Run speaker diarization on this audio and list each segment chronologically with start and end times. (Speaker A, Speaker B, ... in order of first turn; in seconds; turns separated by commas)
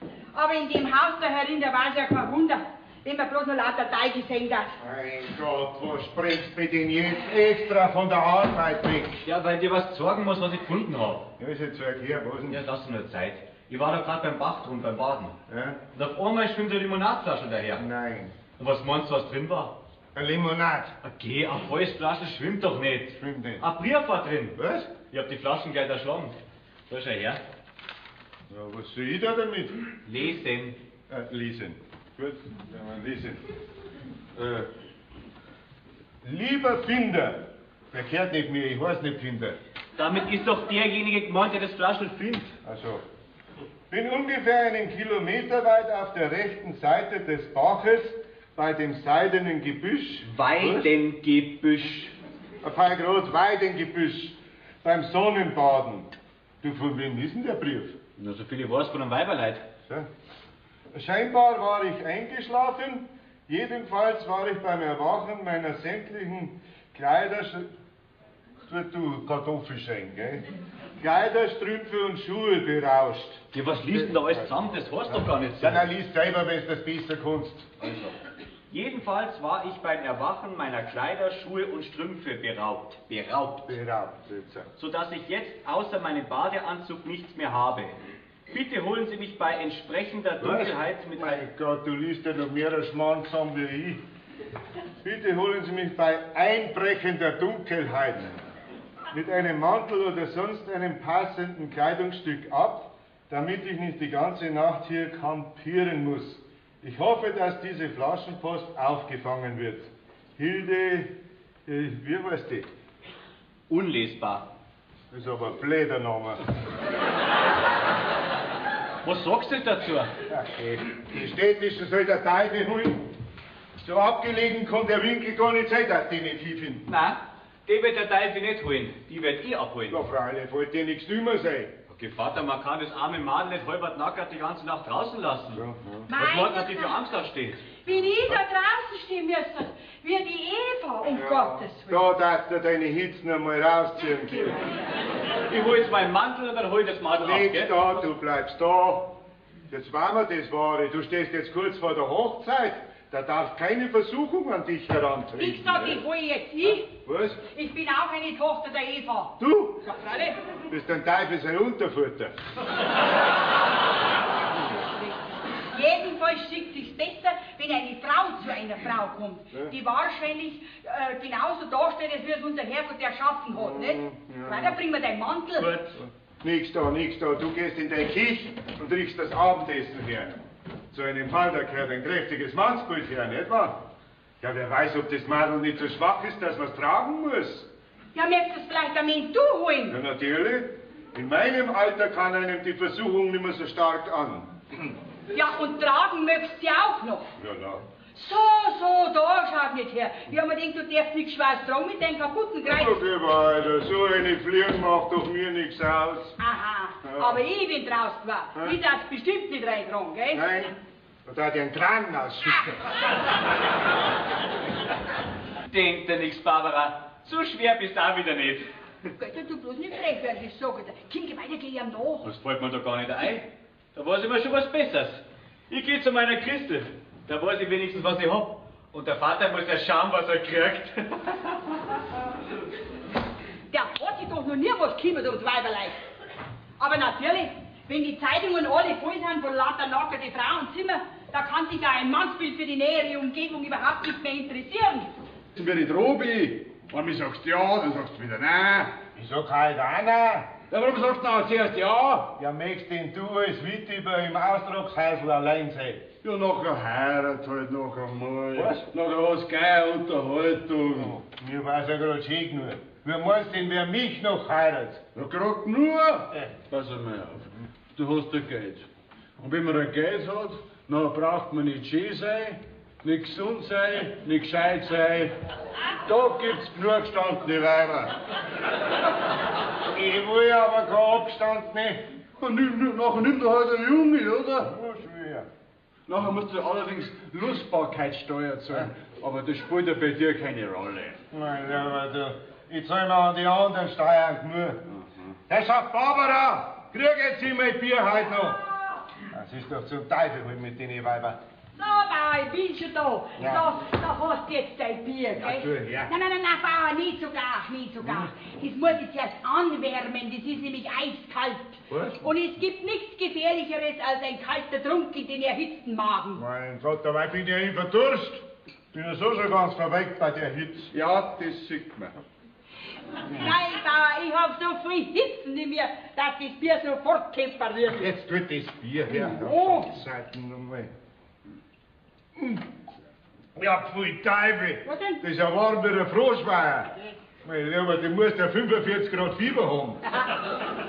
Speaker A: 0.3-4.7, Speaker B: 4.8-9.2, Speaker C: 9.2-11.3, Speaker B: 11.4-12.6, Speaker C: 12.5-15.3, Speaker B: 15.5-15.8, Speaker C: 15.9-17.8, Speaker B: 17.8-18.3, Speaker C: 18.6-19.7, Speaker B: 20.1-20.9, Speaker C: 21.0-24.6, Speaker B: 23.2-23.6, Speaker B: 24.6-24.9, Speaker C: 25.1-26.3, Speaker C: 26.9-27.4, Speaker B: 28.5-29.8, Speaker C: 30.1-30.8, Speaker B: 31.1-33.4, Speaker B: 34.4-34.7, Speaker B: 36.2-39.6, Speaker C: 40.0-42.5, Speaker B: 42.6-43.0, Speaker B: 43.9-50.9, Speaker C: 50.2-52.1, Speaker B: 52.6-58.0, Speaker C: 58.2-59.6, Speaker B: 60.9-67.7, Speaker B: 68.7-70.4, Speaker B: 71.0-74.5, Speaker C: 73.5-75.8, Speaker B: 75.1-78.1, Speaker C: 78.7-83.7, Speaker B: 83.6-84.7, Speaker C: 84.8-87.9, Speaker C: 88.5-91.4, Speaker B: 90.4-94.0, Speaker B: 95.0-98.4, Speaker B: 99.1-111.1, Speaker B: 111.7-112.7, Speaker C: 113.7-114.4, Speaker B: 115.1-116.4, Speaker C: 119.0-120.1, Speaker B: 120.3-123.1, Speaker B: 123.8-126.8, Speaker C: 126.9-130.0, Speaker B: 129.9-131.7, Speaker C: 131.9-135.6, Speaker B: 135.5-136.1, Speaker A: 136.1-137.0, Speaker C: 136.2-137.6, Speaker A: 137.8-142.1, Speaker B: 141.1-144.6, Speaker C: 145.5-148.0, Speaker B: 147.2-149.2, Speaker B: 149.7-156.0, Speaker A: 155.4-156.9, Speaker B: 157.0-157.4, Speaker A: 157.5-160.3, Speaker B: 159.4-159.8, Speaker B: 160.7-162.3, Speaker A: 165.7-175.7, Speaker B: 173.5-174.8, Speaker B: 175.7-180.3, Speaker B: 180.9-183.8, Speaker B: 184.4-187.7, Speaker A: 188.1-190.0, Speaker B: 189.9-194.9, Speaker A: 195.3-197.3, Speaker B: 197.4-197.8, Speaker A: 198.1-203.0, Speaker B: 202.7-206.3, Speaker A: 206.4-210.5, Speaker B: 207.0-207.4, Speaker B: 210.3-212.9, Speaker C: 215.7-218.7, Speaker A: 219.2-222.3, Speaker C: 222.2-231.4, Speaker A: 233.7-236.0, Speaker A: 236.8-245.1, Speaker D: 245.5-248.9, Speaker B: 249.1-250.5, Speaker D: 250.7-252.3, Speaker B: 252.4-256.1, Speaker D: 256.2-261.2, Speaker B: 261.0-265.0, Speaker D: 265.1-268.9, Speaker D: 269.4-275.3, Speaker D: 276.1-278.1, Speaker B: 277.6-278.1, Speaker B: 279.9-282.0, Speaker D: 282.4-284.7, Speaker B: 284.6-285.5, Speaker D: 286.1-291.2, Speaker B: 291.3-294.8, Speaker B: 295.5-298.6, Speaker B: 299.3-301.4, Speaker A: 301.8-316.4, Speaker B: 303.4-303.6, Speaker B: 305.4-306.1, Speaker B: 308.0-308.3, Speaker B: 311.9-312.2, Speaker B: 316.4-320.9, Speaker D: 320.9-322.2, Speaker A: 323.3-328.1, Speaker B: 327.9-330.9, Speaker A: 329.1-329.9, Speaker B: 332.4-332.6, Speaker B: 333.5-336.9, Speaker A: 334.9-335.2, Speaker B: 337.4-340.0, Speaker A: 340.1-340.4